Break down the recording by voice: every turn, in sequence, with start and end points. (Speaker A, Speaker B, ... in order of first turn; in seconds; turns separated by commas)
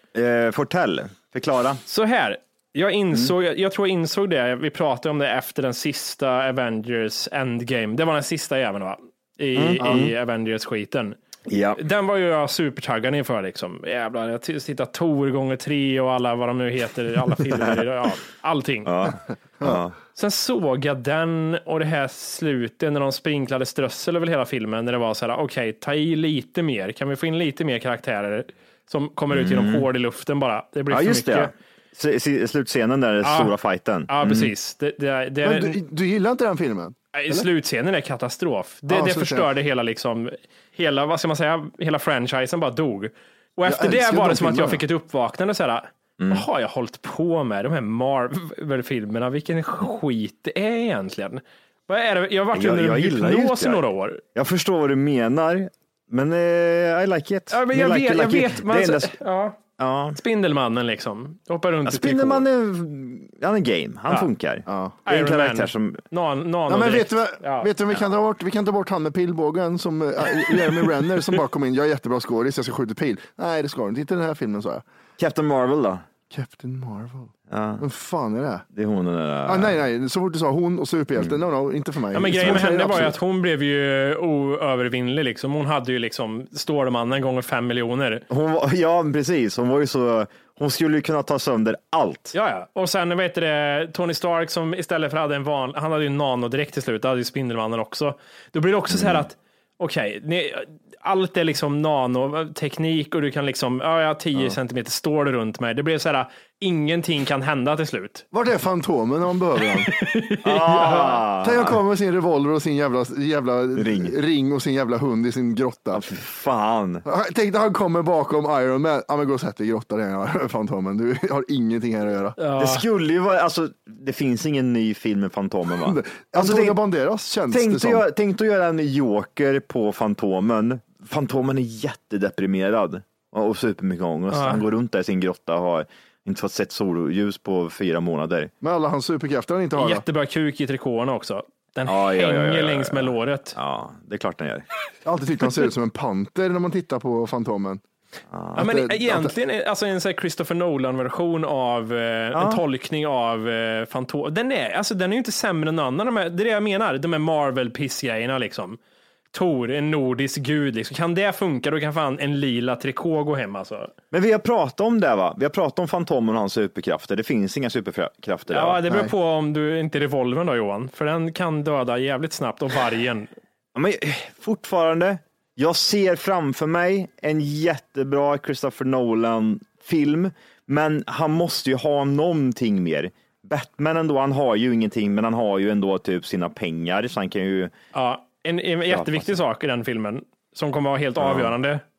Speaker A: 0.1-1.8, Speaker B: 1.9-11.2, Speaker A: 9.5-10.1, Speaker C: 9.8-10.1, Speaker A: 11.5-11.8, Speaker B: 11.8-18.9, Speaker A: 18.9-19.9, Speaker B: 20.1-31.5, Speaker A: 29.3-29.9, Speaker A: 30.9-34.5, Speaker B: 33.2-33.5, Speaker B: 34.1-35.8, Speaker C: 35.4-37.5, Speaker B: 37.1-54.2, Speaker C: 38.9-39.5, Speaker C: 43.6-44.8, Speaker A: 46.2-46.5, Speaker A: 52.5-53.8, Speaker A: 54.3-59.2, Speaker B: 57.5-59.6, Speaker A: 59.8-60.2, Speaker B: 60.1-62.4, Speaker A: 61.9-66.0, Speaker C: 64.7-65.0, Speaker B: 65.1-67.7, Speaker C: 66.7-74.8, Speaker A: 75.2-76.0, Speaker C: 76.3-78.6, Speaker A: 77.5-77.8, Speaker A: 78.7-79.8, Speaker C: 79.5-83.1, Speaker B: 82.1-88.2, Speaker A: 88.3-92.3, Speaker B: 92.3-108.2, Speaker A: 98.9-99.2, Speaker C: 108.3-109.9, Speaker B: 109.9-110.6, Speaker A: 110.4-111.8, Speaker C: 110.6-116.0, Speaker A: 113.8-114.2, Speaker A: 115.9-117.0, Speaker C: 117.0-122.3, Speaker B: 122.4-122.8, Speaker A: 122.6-126.8, Speaker C: 125.8-128.0, Speaker A: 127.5-138.5, Speaker B: 134.3-134.6, Speaker C: 138.6-140.0, Speaker B: 139.8-143.6, Speaker A: 141.9-144.7, Speaker C: 145.0-147.8, Speaker A: 148.3-148.7, Speaker C: 148.6-149.3, Speaker B: 148.6-158.8, Speaker A: 152.3-152.6, Speaker B: 159.3-163.9, Speaker A: 164.1-168.8, Speaker B: 168.5-173.3, Speaker A: 173.7-187.7, Speaker B: 187.9-191.8, Speaker A: 188.9-189.4, Speaker A: 191.2-191.6